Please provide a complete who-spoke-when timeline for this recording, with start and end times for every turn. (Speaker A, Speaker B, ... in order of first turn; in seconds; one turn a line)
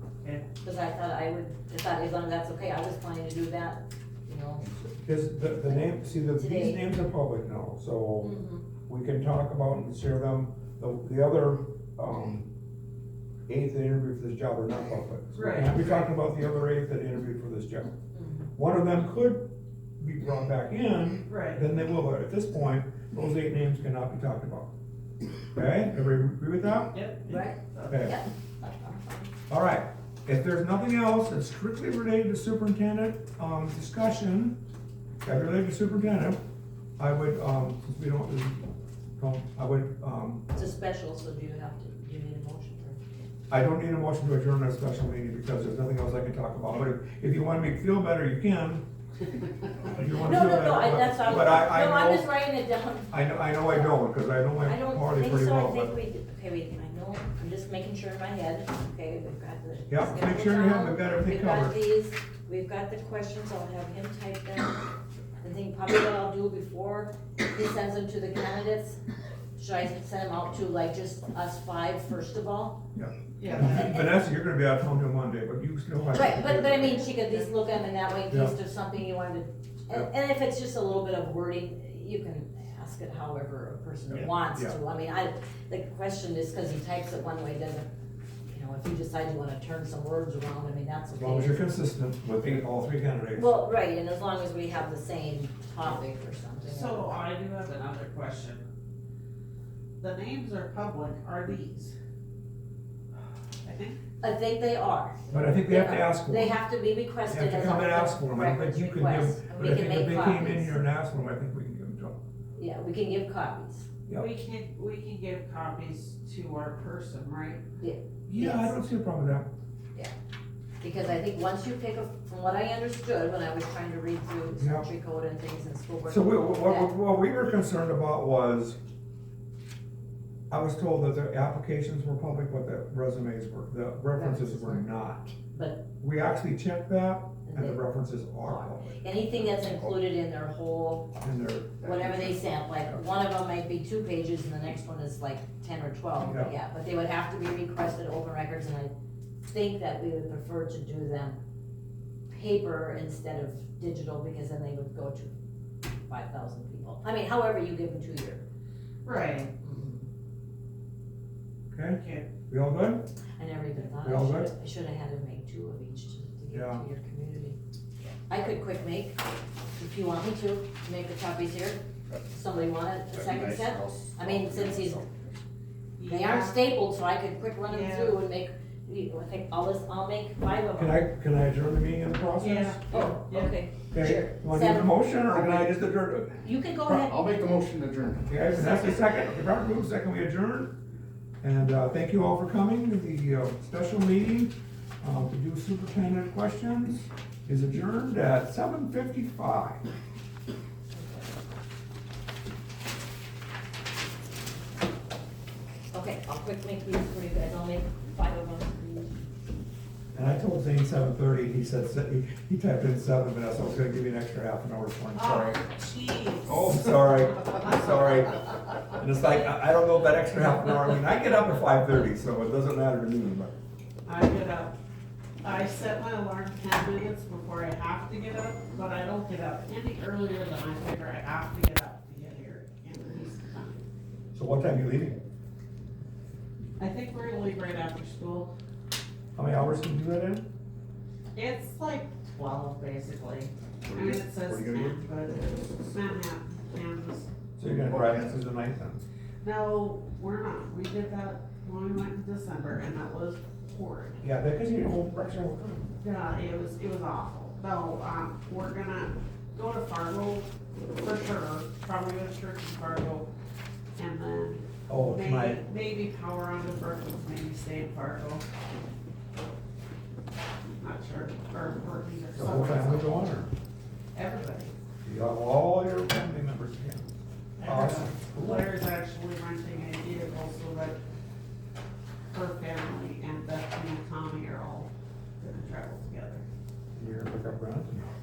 Speaker A: 0.6-4.7
Speaker B: 5.0-8.4
Speaker A: 6.3-6.8
Speaker A: 8.2-8.6
Speaker B: 8.9-12.5
Speaker B: 13.5-17.9
Speaker C: 15.3-16.1
Speaker A: 18.1-18.5
Speaker B: 18.6-19.5
Speaker B: 20.0-24.7
Speaker C: 21.3-21.6
Speaker B: 25.5-27.0
Speaker C: 26.9-28.1
Speaker A: 27.3-29.3
Speaker B: 27.9-28.1
Speaker B: 29.5-34.6
Speaker B: 35.2-36.4
Speaker B: 37.0-40.5
Speaker A: 40.5-43.0
Speaker B: 43.5-48.8
Speaker B: 49.9-52.3
Speaker A: 50.2-54.0
Speaker B: 53.1-56.0
Speaker A: 54.6-64.8
Speaker B: 59.9-61.8
Speaker A: 65.4-69.0
Speaker A: 69.6-72.8
Speaker B: 73.0-77.0
Speaker C: 73.4-73.8
Speaker A: 73.5-74.1
Speaker A: 76.1-87.9
Speaker B: 84.1-84.8
Speaker A: 88.5-91.7
Speaker B: 91.1-93.5
Speaker A: 93.3-97.2
Speaker C: 96.6-98.7
Speaker C: 100.0-102.0
Speaker C: 103.6-104.0
Speaker A: 104.2-110.8
Speaker B: 105.3-106.6
Speaker B: 107.2-112.2
Speaker A: 112.6-113.9
Speaker C: 114.1-117.6
Speaker A: 117.8-118.8
Speaker B: 118.3-119.5
Speaker A: 120.8-126.9
Speaker B: 124.5-124.9
Speaker B: 126.1-128.8
Speaker B: 130.5-135.4
Speaker A: 134.2-134.9
Speaker A: 135.5-135.8
Speaker B: 136.0-139.0
Speaker A: 137.5-137.8
Speaker A: 138.4-141.2
Speaker B: 141.2-141.8
Speaker A: 141.8-151.4
Speaker B: 146.2-146.5
Speaker A: 152.3-155.3
Speaker A: 156.1-158.4
Speaker C: 159.0-159.5
Speaker A: 159.6-160.1
Speaker B: 161.7-163.0
Speaker C: 161.9-162.3
Speaker A: 163.4-167.6
Speaker B: 164.0-164.5
Speaker B: 166.5-166.8
Speaker A: 168.3-169.2
Speaker A: 169.8-175.0
Speaker D: 173.1-175.2
Speaker C: 176.0-176.6
Speaker A: 176.1-181.0
Speaker C: 177.6-178.2
Speaker B: 180.8-182.8
Speaker C: 182.4-183.6
Speaker A: 182.9-185.2
Speaker B: 183.9-186.4
Speaker A: 186.4-187.4
Speaker D: 186.8-188.3
Speaker B: 188.3-190.8
Speaker C: 188.5-189.1
Speaker B: 191.4-199.8
Speaker A: 200.9-201.2
Speaker A: 205.9-209.1
Speaker B: 210.1-215.6
Speaker C: 215.2-217.8
Speaker B: 216.5-223.6
Speaker C: 224.1-224.8
Speaker C: 225.4-233.8
Speaker B: 234.3-235.2
Speaker C: 236.8-238.5
Speaker B: 239.4-240.4
Speaker C: 241.3-247.3
Speaker D: 243.9-245.0
Speaker B: 247.6-249.1
Speaker D: 247.7-248.4
Speaker C: 249.4-254.2
Speaker B: 254.2-255.9
Speaker C: 256.0-263.3
Speaker C: 263.9-268.4
Speaker B: 264.9-265.6
Speaker C: 270.8-273.2
Speaker B: 272.4-273.5
Speaker C: 274.1-274.7
Speaker B: 275.1-277.1
Speaker C: 277.6-281.0
Speaker B: 277.6-278.7
Speaker C: 282.3-286.4
Speaker B: 287.0-288.1